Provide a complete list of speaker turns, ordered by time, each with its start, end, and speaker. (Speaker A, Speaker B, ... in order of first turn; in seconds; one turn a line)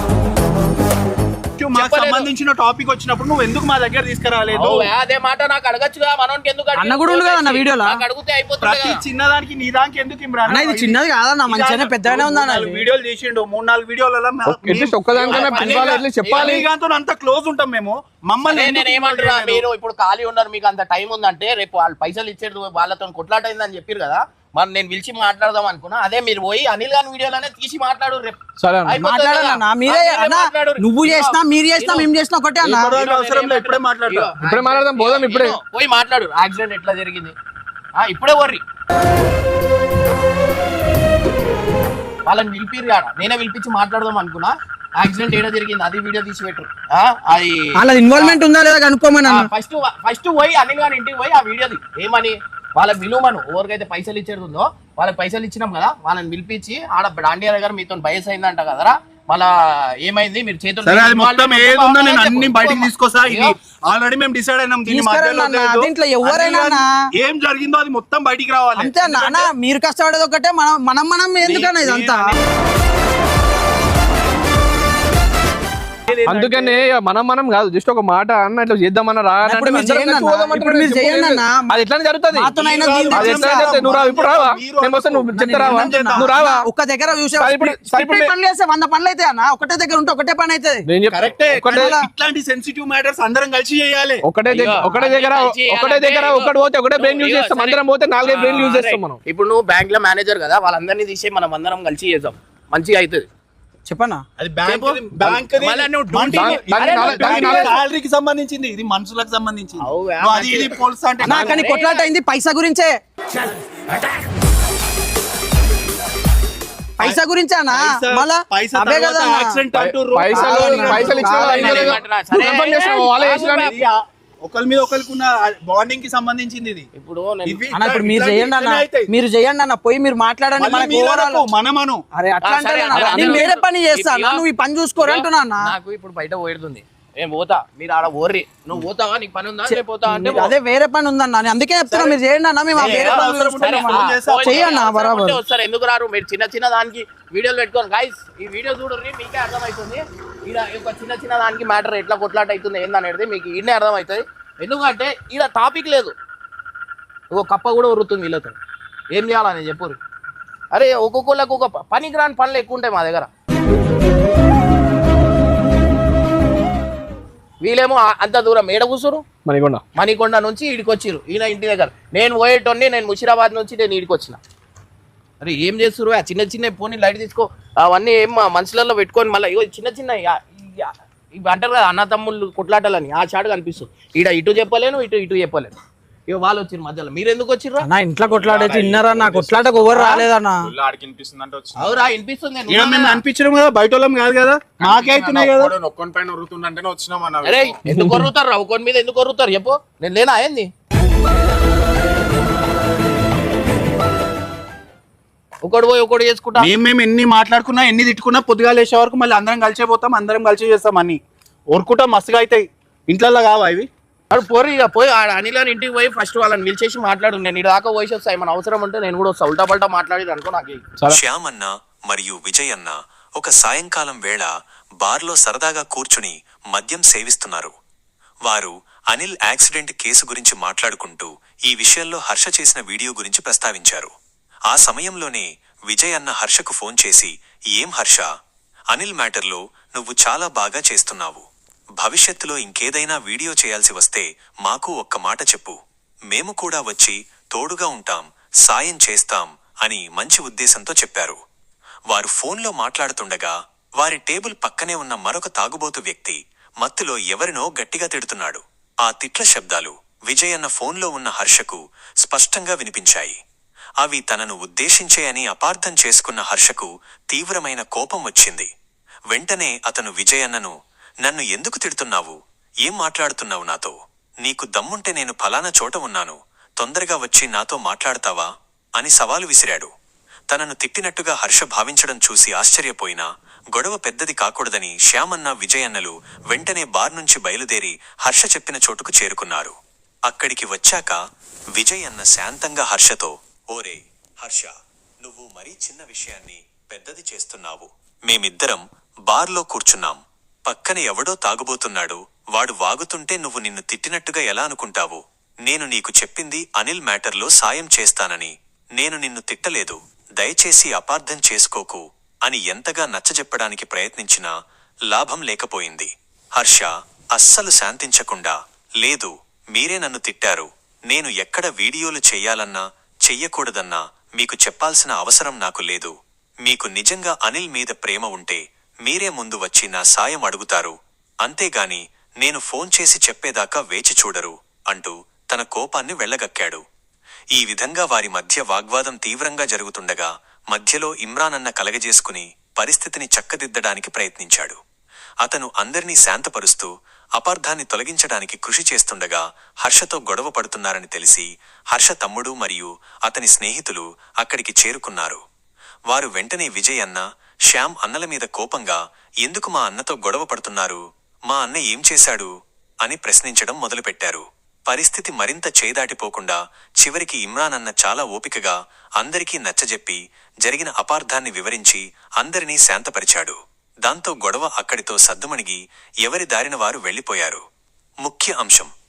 Speaker A: 1.6-4.9
Speaker B: 1.7-2.3
Speaker B: 4.5-9.0
Speaker C: 6.8-8.0
Speaker A: 8.6-19.6
Speaker C: 10.5-12.8
Speaker D: 14.4-16.6
Speaker B: 15.1-16.6
Speaker B: 18.5-32.1
Speaker D: 28.6-28.9
Speaker C: 28.9-32.9
Speaker A: 32.6-34.3
Speaker B: 33.0-37.3
Speaker D: 34.4-35.5
Speaker B: 38.0-38.6
Speaker B: 42.2-48.4
Speaker C: 47.8-49.5
Speaker B: 49.2-59.5
Speaker B: 60.0-63.5
Speaker A: 60.8-69.5
Speaker C: 64.9-66.9
Speaker C: 68.8-72.3
Speaker B: 71.4-72.3
Speaker B: 76.1-76.7
Speaker D: 76.2-82.5
Speaker C: 79.4-81.8
Speaker C: 82.3-83.8
Speaker A: 82.5-86.3
Speaker D: 83.1-86.7
Speaker C: 85.3-90.8
Speaker D: 87.4-88.3
Speaker D: 90.9-91.9
Speaker A: 91.1-94.2
Speaker C: 91.7-92.0
Speaker D: 94.2-99.2
Speaker B: 94.5-103.2
Speaker C: 103.8-104.2
Speaker A: 104.4-111.5
Speaker B: 104.6-107.7
Speaker D: 106.3-107.7
Speaker B: 109.8-112.0
Speaker C: 111.2-112.9
Speaker C: 117.0-119.6
Speaker A: 117.7-122.0
Speaker D: 119.8-123.7
Speaker C: 120.3-121.8
Speaker B: 121.3-123.8
Speaker A: 123.6-126.9
Speaker B: 127.0-127.6
Speaker A: 127.4-129.1
Speaker C: 127.7-131.4
Speaker A: 130.6-132.0
Speaker C: 132.1-135.7
Speaker B: 132.4-134.4
Speaker A: 132.9-133.3
Speaker B: 135.0-140.5
Speaker C: 139.7-145.4
Speaker A: 141.9-142.2
Speaker A: 142.7-144.8
Speaker B: 142.8-156.1
Speaker B: 157.3-158.6
Speaker B: 159.1-160.0
Speaker B: 160.7-163.3
Speaker B: 167.6-169.2
Speaker D: 169.4-169.8
Speaker B: 169.9-174.4
Speaker B: 175.4-185.8
Speaker B: 186.3-187.8
Speaker C: 187.8-190.7
Speaker E: 188.3-190.0
Speaker B: 189.9-190.3
Speaker E: 190.7-192.1
Speaker B: 191.8-193.2
Speaker A: 192.7-195.8
Speaker E: 194.8-197.8
Speaker B: 197.4-200.7
Speaker B: 205.6-206.7
Speaker A: 206.6-211.2
Speaker A: 211.7-213.9
Speaker B: 214.3-220.9
Speaker F: 221.1-227.7
Speaker F: 228.4-234.1
Speaker F: 234.7-238.3
Speaker F: 238.9-241.4
Speaker F: 242.0-245.7
Speaker F: 246.3-251.4
Speaker F: 252.1-263.4
Speaker F: 264.0-268.7
Speaker F: 269.3-279.9
Speaker F: 280.5-289.7
Speaker F: 290.3-291.2
Speaker F: 291.7-314.5
Speaker F: 315.1-326.1
Speaker F: 326.6-336.8
Speaker F: 337.5-344.8
Speaker F: 345.4-355.4
Speaker F: 356.1-362.5
Speaker F: 363.0-377.6
Speaker F: 378.2-378.9